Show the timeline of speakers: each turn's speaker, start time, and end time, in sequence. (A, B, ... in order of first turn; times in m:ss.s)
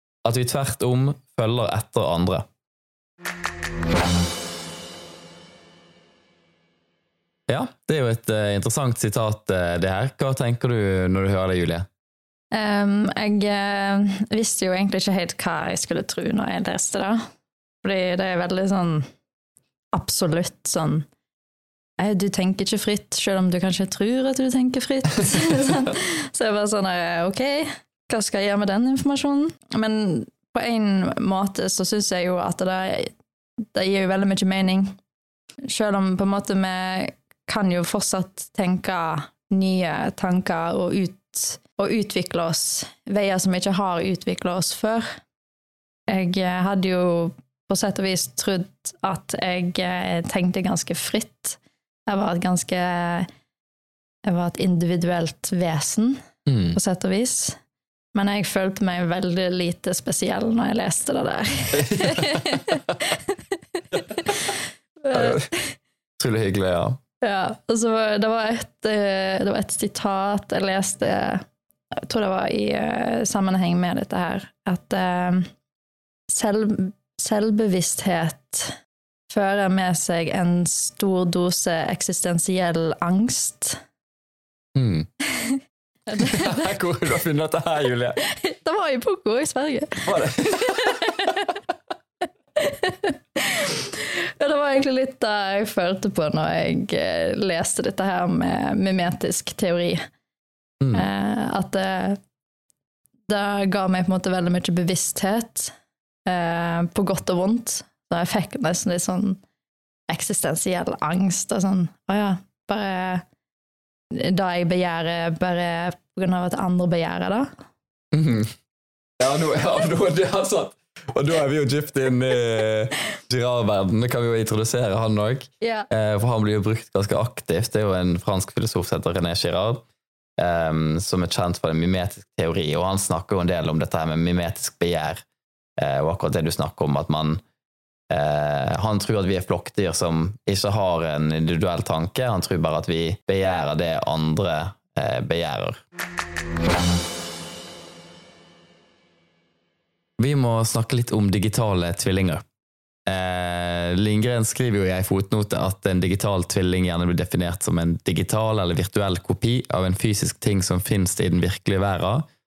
0:00.2-0:02.4 A
0:07.5-0:11.9 A
0:12.5-0:17.2 B
0:17.8-0:19.1 B
0:19.9-0:21.1 B
0:22.0-0:33.1 B
0:33.7-0:35.0 B
0:35.7-0:45.1 B
0:46.1-0:53.3 B
0:54.2-0:56.2 B
0:56.5-0:56.8 A
0:56.7-0:57.6 B
0:58.1-1:03.4 B
1:01.8-1:02.5 A
1:04.1-1:05.8 B
1:05.1-1:05.5 A
1:06.2-1:07.0 A
1:07.2-1:11.4 B
1:12.0-1:15.5 B
1:16.3-1:18.8 B
1:19.3-1:23.8 B
1:24.8-1:25.1 A
1:25.3-1:26.7 B
1:26.2-1:28.2 A
1:28.2-1:31.4 B
1:30.1-1:30.9 A
1:32.6-1:40.0 B
1:40.8-1:41.1 A
1:40.9-1:42.2 B
1:43.3-1:45.7 B
1:46.3-1:49.4 B
1:50.1-1:53.2 B
1:54.1-1:57.5 B
1:58.1-1:58.6 A
1:59.2-2:09.8 A
2:05.6-2:05.9 B
2:10.4-2:15.2 A
2:15.8-2:17.4 A
2:18.1-2:25.8 A
2:30.2-2:32.4 A
2:33.1-2:42.3 A